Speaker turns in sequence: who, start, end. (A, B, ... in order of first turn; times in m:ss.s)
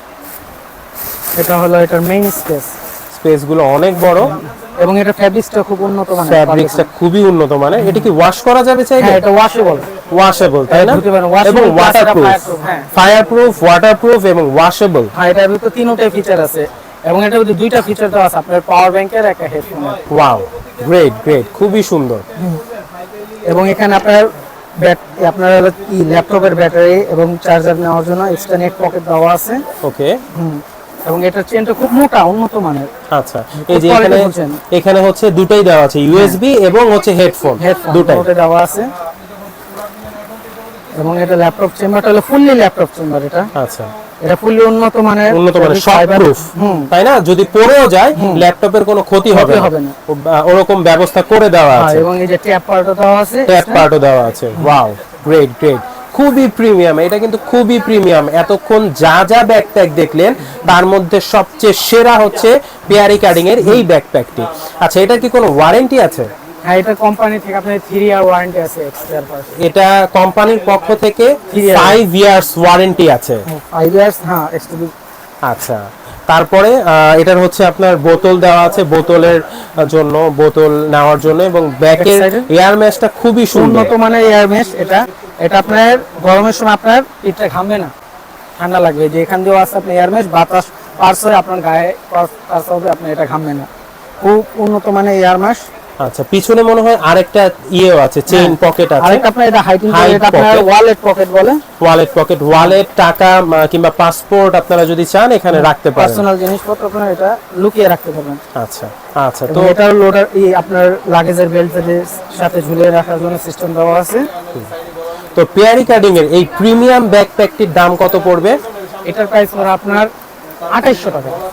0:01.4-0:02.7 A
0:03.1-0:04.4 B
0:04.1-0:06.9 A
0:06.2-0:09.2 B
0:07.8-0:08.1 A
0:09.0-0:09.9 A
0:10.1-0:15.1 B
0:10.7-0:12.9 A
0:15.1-0:20.0 A
0:20.1-0:22.2 B
0:23.4-0:29.6 A
0:29.8-0:30.2 B
0:30.3-0:32.9 A
0:33.1-0:38.3 B
0:33.6-0:34.6 A
0:37.6-0:38.9 A
0:41.0-0:43.5 A
0:43.6-0:43.9 B
0:44.2-0:46.9 A
0:45.3-0:52.1 B
0:48.2-0:48.4 A
0:49.3-0:49.9 A
0:51.7-0:53.8 A
0:53.5-1:06.3 B
1:06.6-1:09.6 A
1:09.6-1:13.4 B
1:11.5-1:12.0 A
1:13.5-1:14.9 A
1:15.4-1:23.9 B
1:22.0-1:22.5 A
1:23.5-1:27.9 A
1:28.6-1:33.7 A
1:34.2-1:35.6 A
1:36.0-1:39.3 B
1:38.3-1:41.6 A
1:39.9-1:40.6 B
1:41.8-1:46.2 B
1:45.5-1:48.4 A
1:48.6-1:49.8 B
1:49.5-1:54.3 A
1:55.3-1:58.6 B
1:59.0-2:00.1 A
2:00.7-2:01.4 A